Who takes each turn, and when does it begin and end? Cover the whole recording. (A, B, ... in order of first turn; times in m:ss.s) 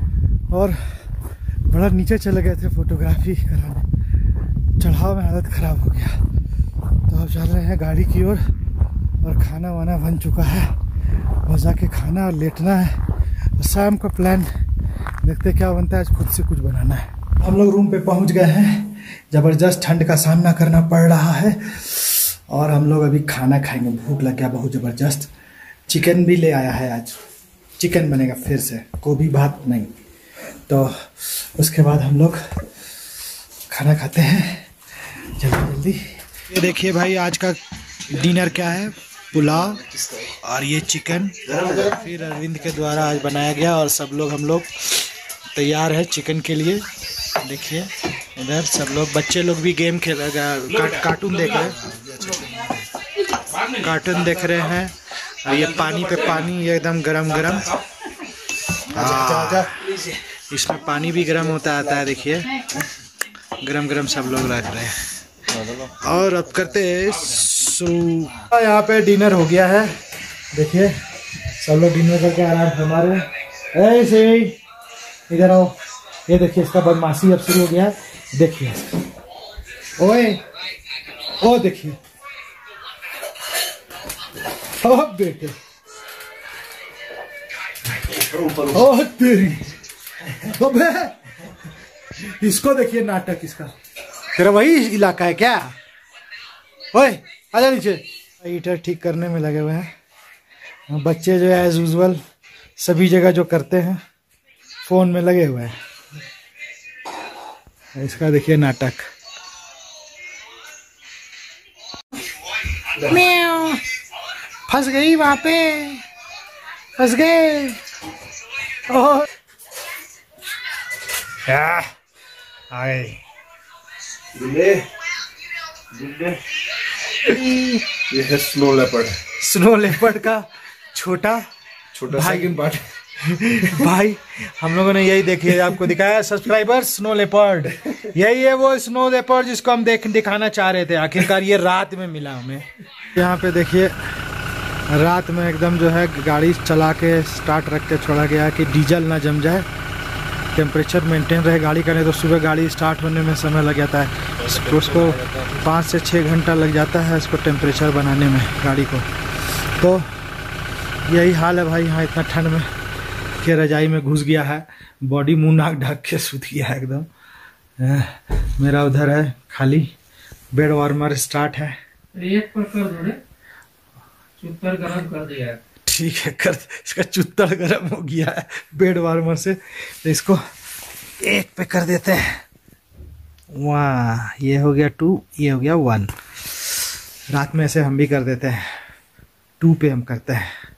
0:00.5-0:00.8 A
0:01.7-0:03.9 A
0:04.8-0:06.2 A
0:07.1-0:08.4 A
0:09.2-0:10.7 A
0:11.4-0:13.0 A
0:13.6-0:14.5 A
0:15.2-0:25.3 A
0:25.9-0:27.2 A
0:27.8-0:30.0 A
0:30.7-0:32.4 A
0:33.7-0:46.9 A
0:41.5-0:42.0 B
0:47.4-0:51.9 A
0:53.6-0:57.8 A
0:58.9-0:59.8 A
0:59.0-0:59.6 B
1:00.5-1:02.7 A
1:03.6-1:05.0 A
1:06.0-1:09.9 A
1:10.5-1:11.0 A
1:11.5-1:14.6 A
1:15.3-1:19.0 A
1:20.0-1:20.4 A
1:21.4-1:22.0 A
1:24.7-1:25.6 A
1:28.1-1:28.8 B
1:28.7-1:29.7 A
1:30.3-1:31.2 A
1:32.2-1:33.7 A
1:34.3-1:35.8 A
1:36.9-1:39.9 A
1:40.9-1:42.2 A
1:42.8-1:44.0 A
1:44.8-1:45.8 A
1:48.0-1:49.1 A
1:53.0-1:53.8 A
1:54.7-1:56.0 A
1:57.0-1:57.8 A
1:58.9-1:59.3 A
2:01.4-2:01.9 A
2:02.7-2:03.2 A
2:04.3-2:04.9 B
2:05.9-2:06.4 B
2:07.2-2:07.8 A
2:08.1-2:09.2 B
2:09.4-2:11.5 A
2:11.9-2:12.8 B
2:12.1-2:24.0 A
2:24.9-2:29.7 A
2:30.5-2:39.1 A
2:34.7-2:35.1 C
2:39.8-2:40.1 A
2:41.0-2:42.7 A
2:43.4-2:47.1 A
2:47.8-2:49.9 A
2:50.5-2:51.8 A
2:52.2-2:53.2 C
2:54.4-2:55.6 C
2:55.8-3:00.4 A
3:01.2-3:02.4 A
3:03.5-3:06.1 A
3:07.3-3:08.7 A
3:09.6-3:10.5 A